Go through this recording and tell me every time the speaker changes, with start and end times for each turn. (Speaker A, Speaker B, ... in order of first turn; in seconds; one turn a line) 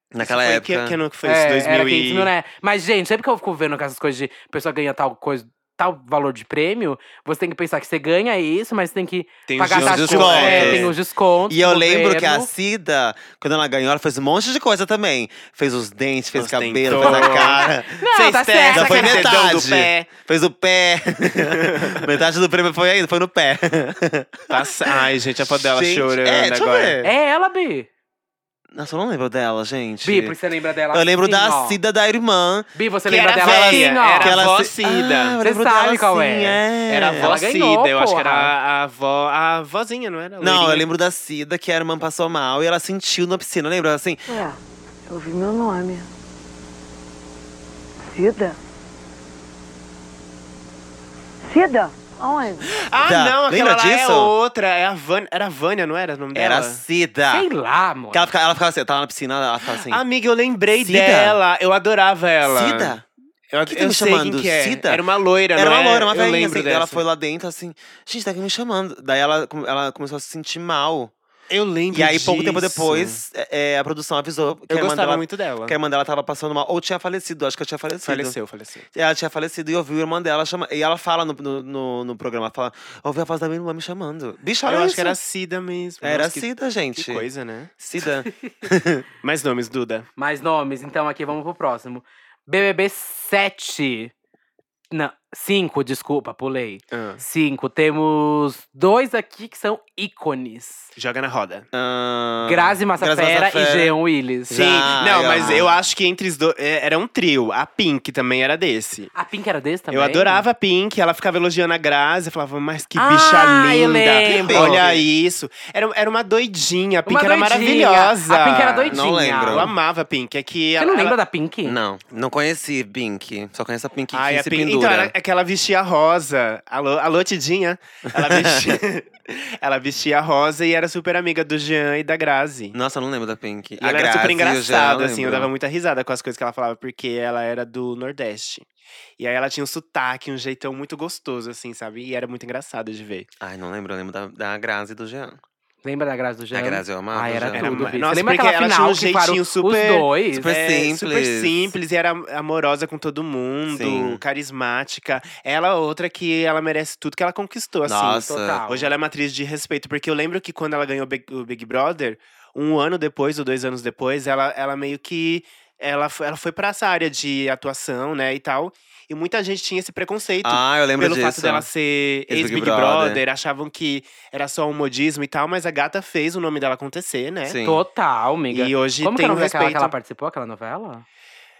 Speaker A: 0.1-1.0
Speaker B: 0.2-2.3
Speaker C: 1.2-12.5
Speaker B: 9.5-10.9
Speaker A: 9.7-10.9
Speaker A: 11.5-18.0
Speaker B: 16.4-20.1
Speaker C: 16.9-19.3
Speaker A: 18.7-24.5
Speaker B: 21.3-22.0
Speaker B: 24.5-26.9
Speaker A: 25.5-27.1
Speaker C: 27.0-27.9
Speaker A: 28.7-30.4
Speaker C: 30.0-31.8
Speaker A: 30.9-32.7
Speaker C: 32.7-34.4
Speaker B: 33.0-35.3
Speaker A: 33.4-37.4
Speaker C: 35.4-38.5
Speaker B: 36.9-40.9
Speaker A: 40.4-44.4
Speaker D: 44.3-46.1
Speaker D: 48.1-48.6
Speaker D: 51.5-52.7
Speaker B: 52.6-56.8
Speaker A: 53.0-54.3
Speaker A: 56.3-57.5
Speaker C: 57.3-58.3
Speaker A: 58.1-60.0
Speaker B: 59.8-63.0
Speaker A: 60.8-61.4
Speaker A: 62.4-63.0
Speaker B: 63.5-67.0
Speaker A: 63.7-65.0
Speaker A: 65.5-71.1
Speaker B: 71.5-73.2
Speaker A: 71.9-78.3
Speaker B: 74.7-75.8
Speaker B: 78.0-78.9
Speaker A: 78.9-85.2
Speaker B: 84.7-87.7
Speaker A: 86.0-87.3
Speaker A: 87.8-89.0
Speaker B: 89.2-90.0
Speaker C: 90.2-94.1
Speaker C: 94.9-100.9
Speaker B: 96.9-97.2
Speaker B: 101.0-101.7
Speaker A: 101.7-103.9
Speaker C: 102.4-104.6
Speaker A: 104.5-105.7
Speaker B: 104.5-109.1
Speaker C: 109.1-110.5
Speaker B: 109.9-121.2
Speaker C: 113.0-114.8
Speaker A: 114.2-115.0
Speaker C: 117.0-119.7
Speaker A: 118.9-119.7
Speaker C: 120.8-121.8
Speaker A: 121.6-125.1
Speaker B: 124.1-132.8
Speaker A: 128.1-128.8
Speaker A: 132.7-135.5
Speaker B: 133.8-138.7
Speaker B: 139.2-143.3
Speaker A: 143.4-145.4
Speaker C: 145.8-150.5
Speaker A: 146.5-147.7
Speaker B: 147.5-177.6
Speaker A: 150.3-151.7
Speaker A: 153.7-154.2
Speaker A: 157.8-158.6
Speaker C: 158.2-158.9
Speaker A: 170.4-171.7
Speaker A: 172.3-173.2
Speaker A: 177.4-177.8
Speaker C: 177.6-181.0
Speaker B: 178.5-179.9